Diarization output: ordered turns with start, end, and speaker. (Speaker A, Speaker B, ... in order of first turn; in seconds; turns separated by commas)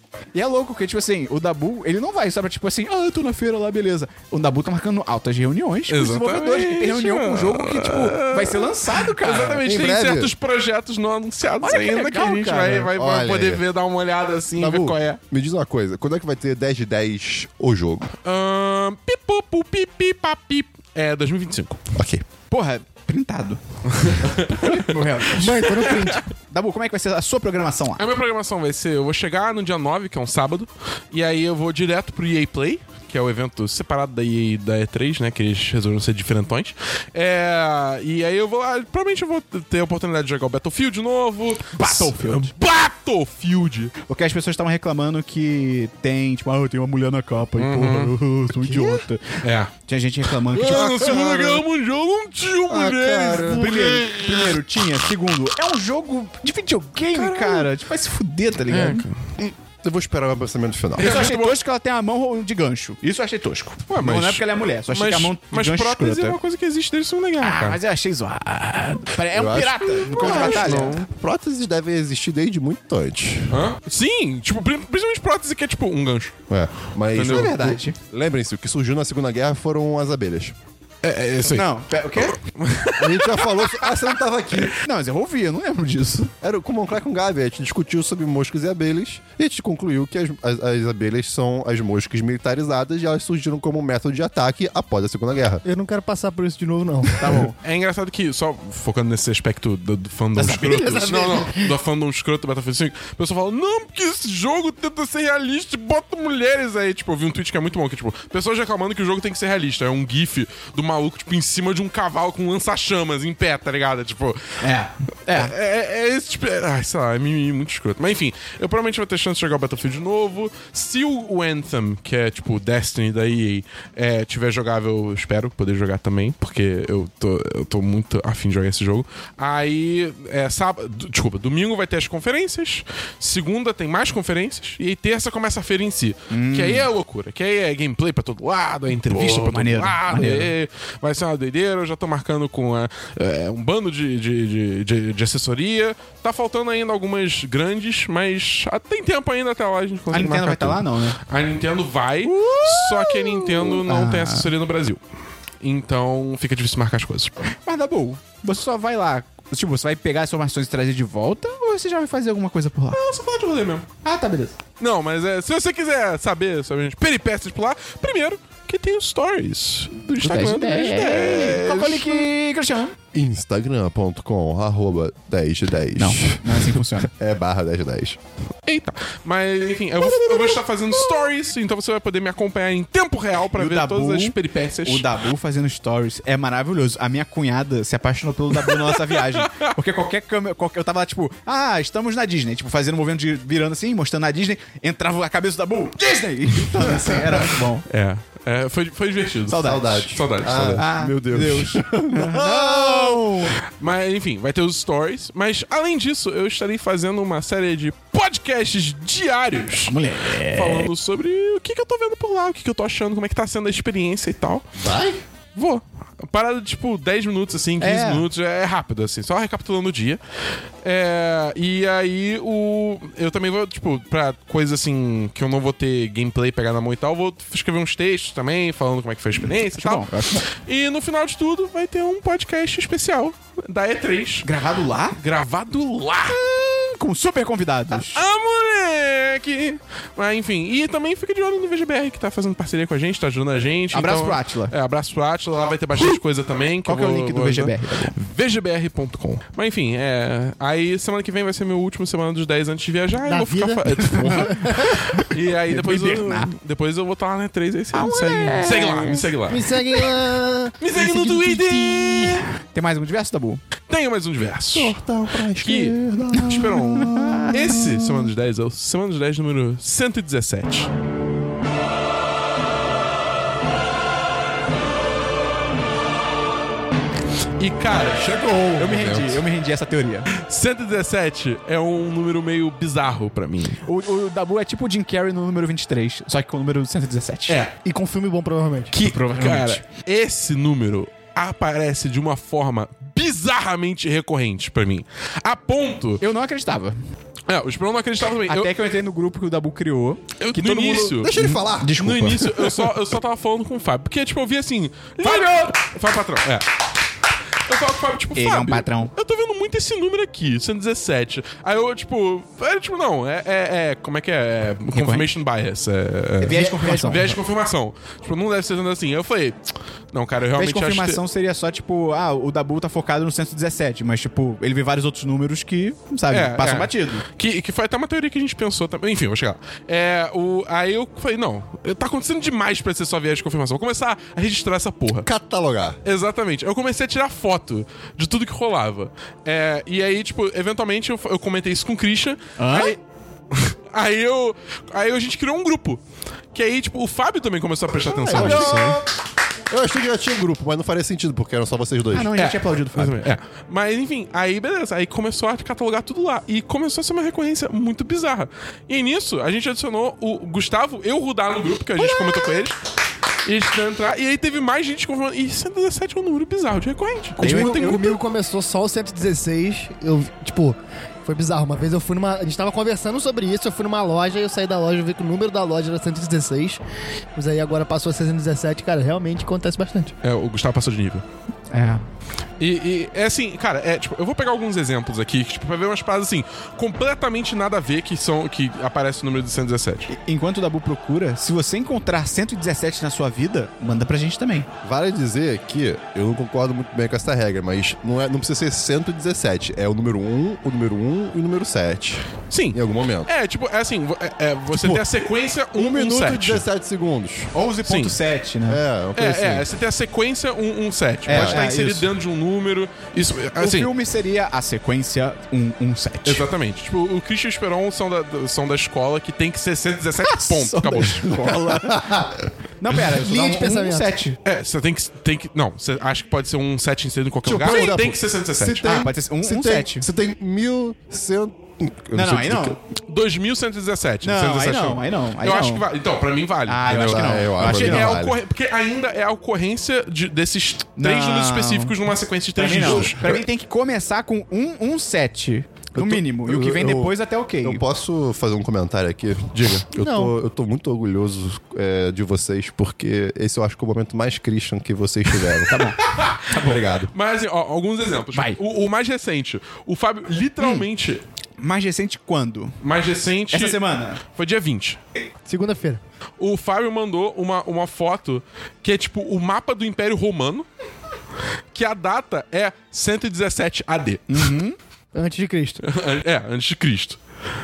Speaker A: 0.3-9.7, Speaker B: 5.9-15.2, Speaker C: 9.6-10.3, Speaker A: 11.6-12.9, Speaker C: 12.9-13.6, Speaker C: 14.6-18.1, Speaker B: 18.2-21.8, Speaker C: 21.9-22.2, Speaker A: 22.5-23.6, Speaker B: 23.9-26.2, Speaker A: 24.2-25.7, Speaker D: 25.3-26.2, Speaker A: 26.5-28.0, Speaker B: 28.0-43.9, Speaker A: 41.7-42.5, Speaker A: 44.1-51.3, Speaker B: 47.5-48.1, Speaker B: 49.4-49.7, Speaker B: 50.4-54.5, Speaker C: 51.0-51.5, Speaker D: 52.7-53.6, Speaker A: 53.5-59.0, Speaker B: 57.1-57.7, Speaker B: 58.7-59.2, Speaker C: 59.4-61.1, Speaker B: 61.0-61.6, Speaker A: 61.0-66.4, Speaker B: 63.9-67.8, Speaker A: 67.4-71.0, Speaker C: 69.3-73.7, Speaker B: 70.1-71.1, Speaker B: 73.5-76.4, Speaker C: 76.5-80.5, Speaker B: 77.1-77.6, Speaker A: 77.2-78.0, Speaker B: 81.0-83.9, Speaker A: 81.1-82.4, Speaker C: 83.0-84.8, Speaker A: 84.8-86.3, Speaker C: 86.4-95.6, Speaker D: 95.6-97.4, Speaker A: 97.2-97.6, Speaker B: 97.6-114.6, Speaker A: 100.3-101.0, Speaker D: 100.8-101.7, Speaker A: 114.6-115.5, Speaker B: 115.3-155.0, Speaker A: 136.3-136.9, Speaker A: 139.1-140.5, Speaker A: 150.1-151.2, Speaker A: 152.2-154.5, Speaker B: 155.6-157.4, Speaker A: 157.6-163.0, Speaker B: 162.9-163.9, Speaker A: 164.0-164.6, Speaker B: 164.8-172.3, Speaker A: 170.2-172.9, Speaker C: 173.1-178.2, Speaker A: 176.0-177.1, Speaker B: 178.6-185.1, Speaker A: 180.0-181.3, Speaker A: 183.5-197.8, Speaker B: 188.7-189.7, Speaker B: 197.8-200.8, Speaker A: 199.5-200.1, Speaker C: 199.6-203.3, Speaker A: 200.8-203.6, Speaker B: 203.8-214.6, Speaker A: 209.8-210.9, Speaker C: 214.8-215.2, Speaker B: 215.5-220.2, Speaker A: 217.8-218.2, Speaker B: 220.8-234.5, Speaker A: 229.4-230.4, Speaker A: 234.4-235.2, Speaker B: 235.2-236.4, Speaker A: 236.3-238.2, Speaker B: 237.9-260.1, Speaker A: 243.9-244.7, Speaker A: 246.8-248.1, Speaker D: 253.2-255.1, Speaker A: 254.2-256.5, Speaker A: 257.9-259.2, Speaker D: 259.5-262.4, Speaker B: 260.8-262.4, Speaker A: 262.7-263.6, Speaker B: 263.9-270.9, Speaker C: 264.7-267.0, Speaker A: 266.3-267.5, Speaker C: 267.6-268.0, Speaker B: 277.6-279.3, Speaker A: 278.8-280.3, Speaker B: 280.3-283.8, Speaker A: 283.8-287.6, Speaker B: 287.5-287.7, Speaker D: 287.8-288.9, Speaker A: 288.9-289.8, Speaker B: 288.9-296.2, Speaker A: 296.2-297.0, Speaker B: 297.5-298.7, Speaker A: 298.5-302.9, Speaker B: 300.4-306.7, Speaker C: 301.1-302.1, Speaker A: 305.2-305.7, Speaker B: 307.6-319.6, Speaker A: 308.4-309.1, Speaker A: 314.9-315.3, Speaker A: 316.4-317.3, Speaker D: 316.5-317.2, Speaker B: 320.1-321.2, Speaker A: 320.6-327.2, Speaker B: 326.3-335.3, Speaker C: 335.2-336.0, Speaker B: 336.0-343.0, Speaker A: 342.6-343.0, Speaker B: 343.5-346.0, Speaker B: 346.5-349.0, Speaker A: 348.1-349.0, Speaker C: 348.3-349.0, Speaker C: 349.7-352.4, Speaker A: 352.1-353.2, Speaker B: 352.4-362.8, Speaker A: 362.0-362.7, Speaker B: 363.4-368.2, Speaker A: 367.4-368.1, Speaker D: 367.4-376.8, Speaker D: 377.3-380.1, Speaker B: 380.2-381.2, Speaker A: 381.7-382.0, Speaker B: 382.6-390.1, Speaker A: 390.1-394.7, Speaker C: 394.8-403.3, Speaker B: 402.5-406.6, Speaker C: 404.7-405.0, Speaker C: 405.7-407.5, Speaker A: 407.5-408.8, Speaker B: 407.8-408.1, Speaker C: 408.7-409.7, Speaker B: 409.1-413.9, Speaker A: 411.2-412.1, Speaker C: 411.3-411.6, Speaker A: 413.6-416.5, Speaker B: 416.2-421.4, Speaker A: 420.2-422.1, Speaker C: 421.3-422.4, Speaker A: 422.8-424.4, Speaker D: 423.0-424.1, Speaker B: 424.4-428.9, Speaker C: 427.4-432.8, Speaker A: 427.5-427.9, Speaker A: 428.8-430.1, Speaker A: 432.1-432.8, Speaker B: 433.1-443.2, Speaker A: 434.2-435.8, Speaker A: 436.7-438.2, Speaker C: 436.9-438.4, Speaker A: 441.0-442.0, Speaker A: 442.6-447.8, Speaker C: 442.9-443.4, Speaker C: 445.9-455.9, Speaker D: 450.0-450.3, Speaker A: 455.7-456.8, Speaker B: 456.1-461.2, Speaker C: 456.5-457.1, Speaker A: 460.6-460.9, Speaker A: 461.6-462.8, Speaker B: 462.8-465.0, Speaker A: 463.5-464.2, Speaker D: 465.4-466.0, Speaker B: 466.4-470.7, Speaker B: 471.7-474.5, Speaker A: 474.3-474.8, Speaker D: 475.1-475.8, Speaker B: 475.8-477.2